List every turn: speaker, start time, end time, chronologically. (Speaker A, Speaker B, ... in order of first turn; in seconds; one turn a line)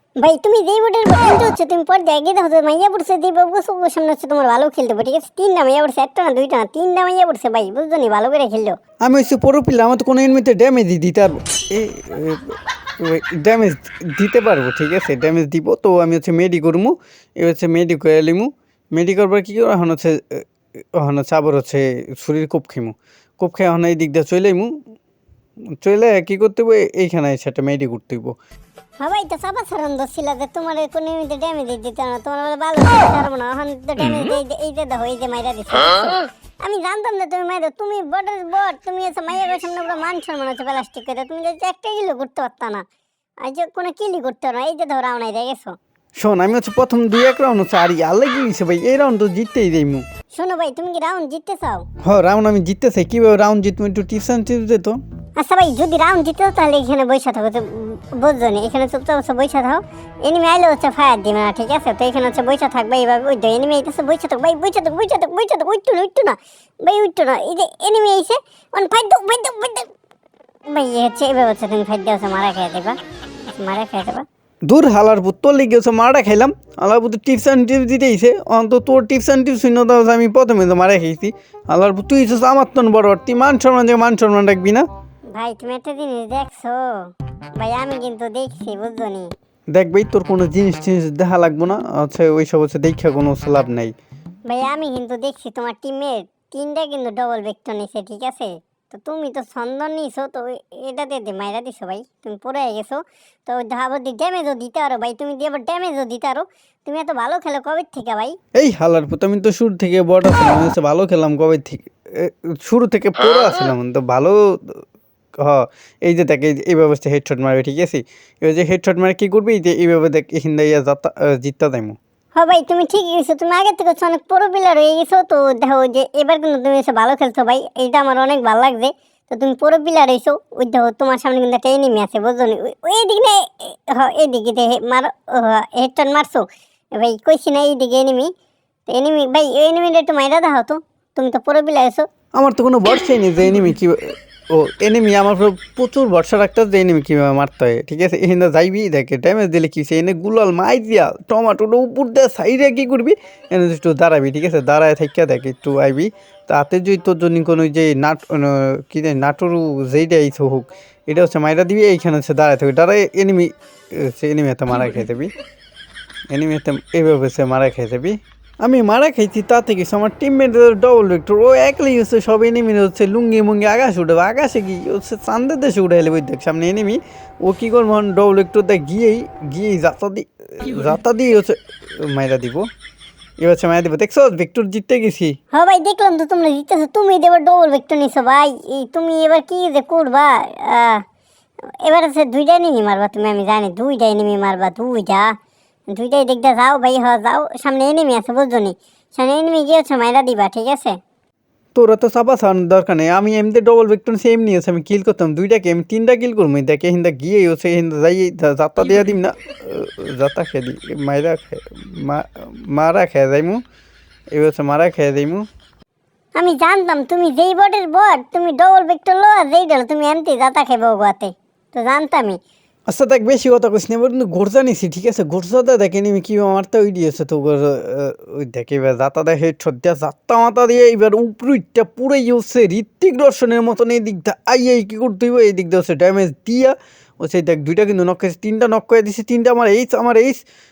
Speaker A: 0.2-8.8
Speaker B: 9.0-24.7
Speaker B: 25.8-28.3
Speaker A: 29.0-42.9
Speaker A: 43.5-45.8
Speaker B: 46.2-50.1
Speaker A: 50.3-51.9
Speaker B: 52.0-55.0
Speaker A: 55.4-69.9
Speaker A: 70.7-73.0
Speaker A: 73.6-74.2
Speaker B: 74.7-84.9
Speaker A: 85.4-89.3
Speaker B: 89.7-93.9
Speaker A: 94.5-108.4
Speaker B: 108.6-114.8
Speaker B: 115.4-122.0
Speaker A: 122.4-136.4
Speaker A: 137.0-138.3
Speaker A: 138.9-142.1
Speaker B: 142.3-165.3
Speaker B: 166.3-182.7
Speaker B: 183.4-185.4
Speaker A: 185.5-191.0
Speaker A: 191.8-195.3
Speaker A: 195.9-201.0
Speaker B: 201.8-213.6
Speaker B: 214.3-215.4
Speaker A: 216.4-222.4
Speaker B: 222.9-240.4